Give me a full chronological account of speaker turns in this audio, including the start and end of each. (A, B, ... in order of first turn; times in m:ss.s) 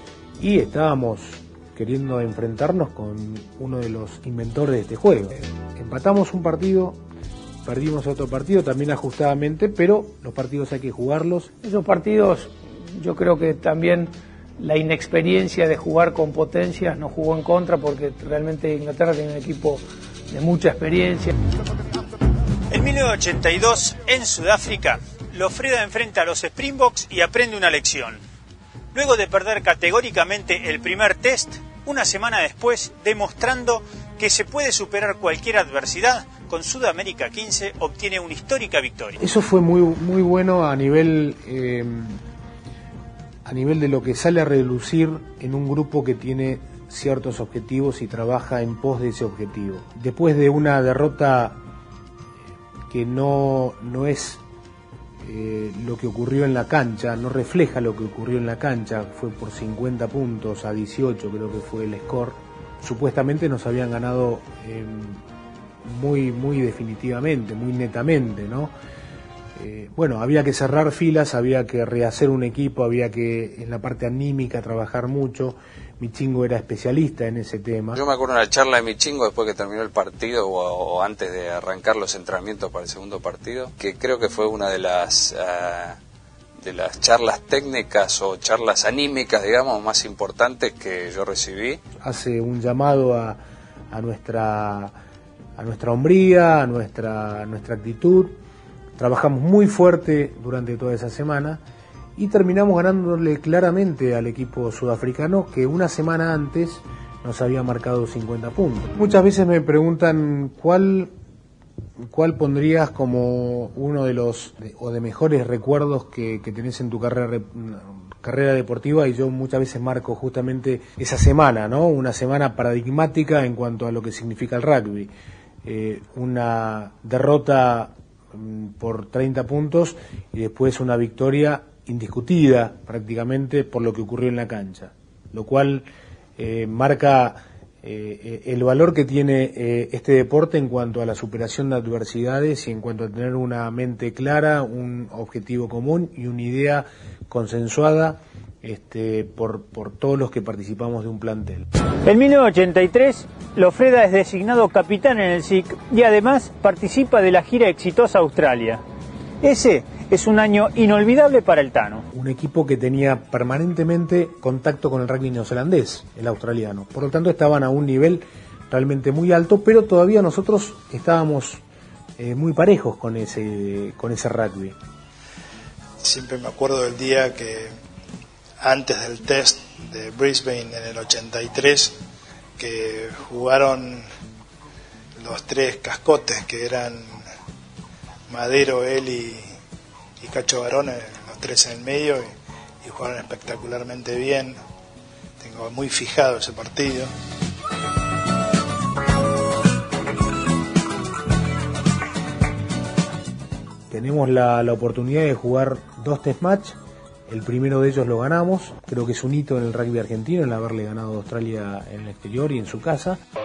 0:00.4-0:07.0 A
0:07.6-0:11.5 A
0:11.6-0:21.3 B
0:22.7-0:28.2 C
0:28.9-0:39.2 C
0:39.2-0:42.2 A
0:43.4-0:51.6 A
0:52.9-0:54.4 A
0:55.2-1:05.2 A
1:05.8-1:08.7 A
1:09.6-1:18.0 A
1:17.9-1:26.0 D
1:26.6-1:31.8 D
1:32.0-1:33.4 A
1:33.9-1:34.9 A
1:35.6-1:38.4 A
1:39.0-1:41.6 A
1:42.2-1:51.1 A
1:52.0-2:05.1 A
2:05.6-2:31.6 A
2:32.0-2:38.8 C
2:39.4-2:42.0 C
2:42.1-2:51.6 A
2:52.2-2:54.8 A
2:56.0-2:57.7 E
2:58.6-3:02.0 E
3:02.6-3:04.1 E
3:05.2-3:07.2 E
3:08.3-3:09.5 E
3:10.2-3:14.6 E
3:15.4-3:17.1 E
3:23.9-3:33.2 A